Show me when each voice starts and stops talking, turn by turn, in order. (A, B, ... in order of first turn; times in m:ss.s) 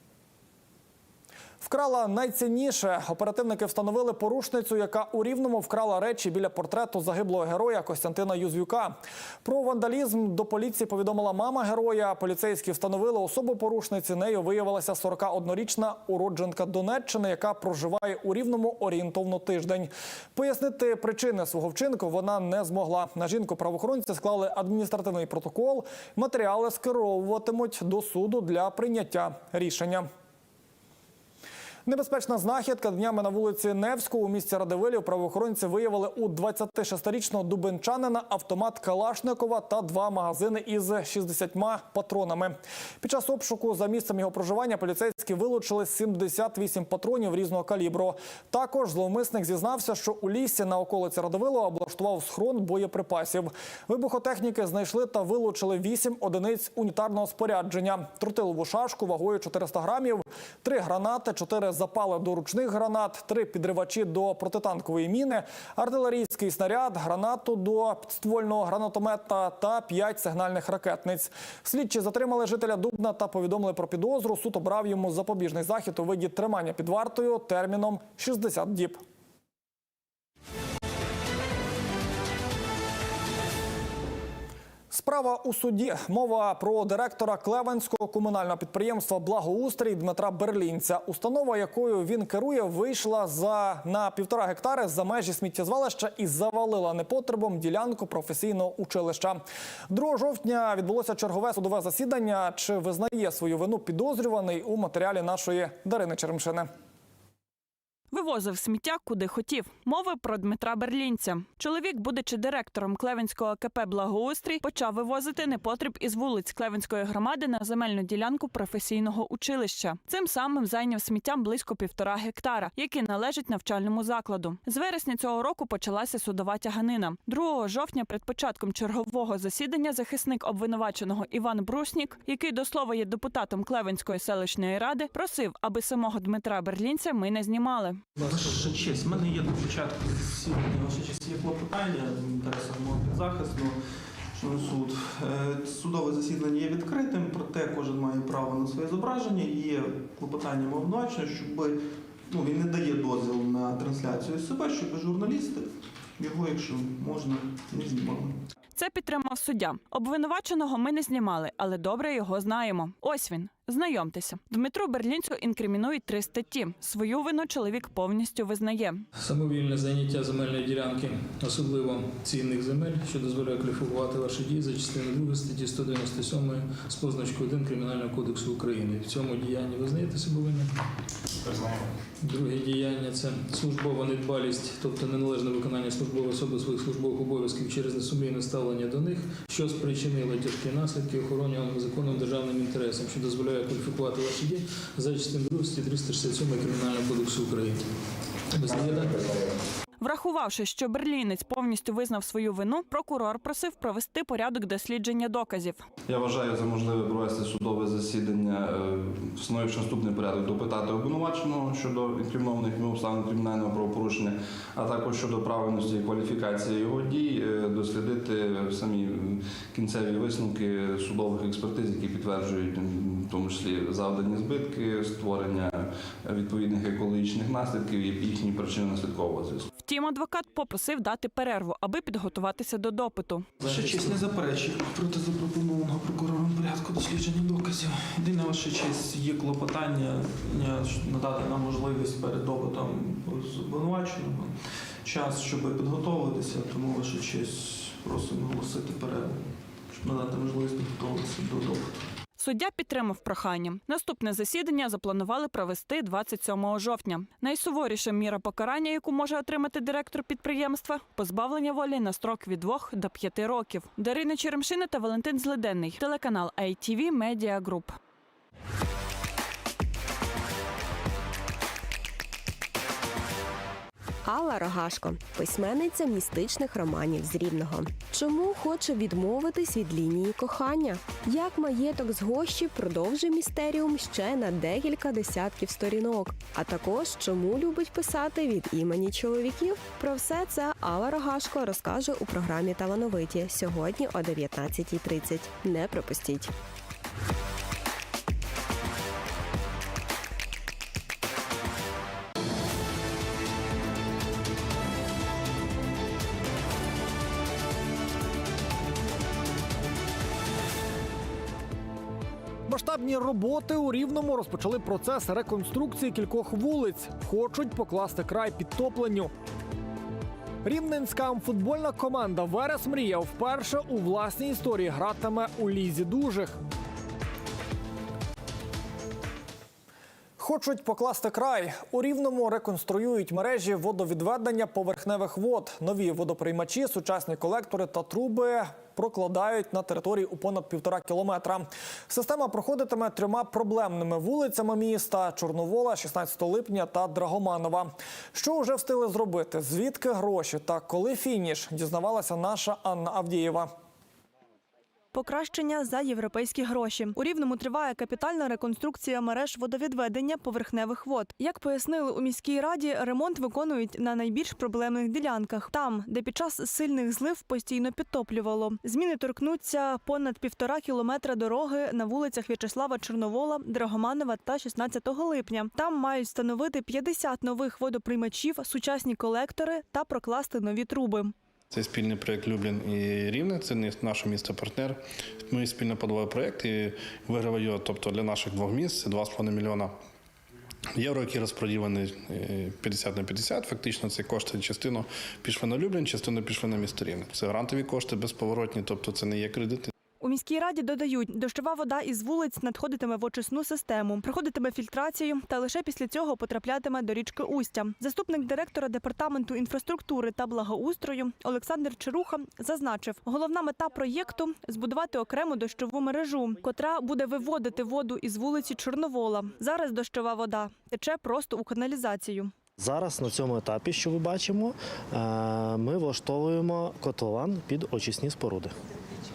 0:01.6-0:30.1 A
0:31.8-1:19.0 A
1:24.9-1:46.7 A
1:48.1-2:18.0 B
2:18.2-2:23.8 C
2:24.3-2:38.4 C
2:38.7-2:49.0 B
2:49.2-3:00.7 D
3:02.2-3:17.8 D
3:18.5-3:19.2 D
3:20.0-3:25.8 B
3:26.0-3:49.7 E
3:49.8-3:53.5 B
3:53.6-4:12.0 C
4:12.4-4:28.0 B
4:34.2-4:56.5 F
5:12.7-5:19.3 A
5:20.6-5:26.6 A
5:30.4-5:53.7 A
5:55.1-6:21.3 G
6:21.7-6:30.0 H
6:30.9-6:39.9 H
6:40.2-7:02.5 G
7:02.8-7:08.7 I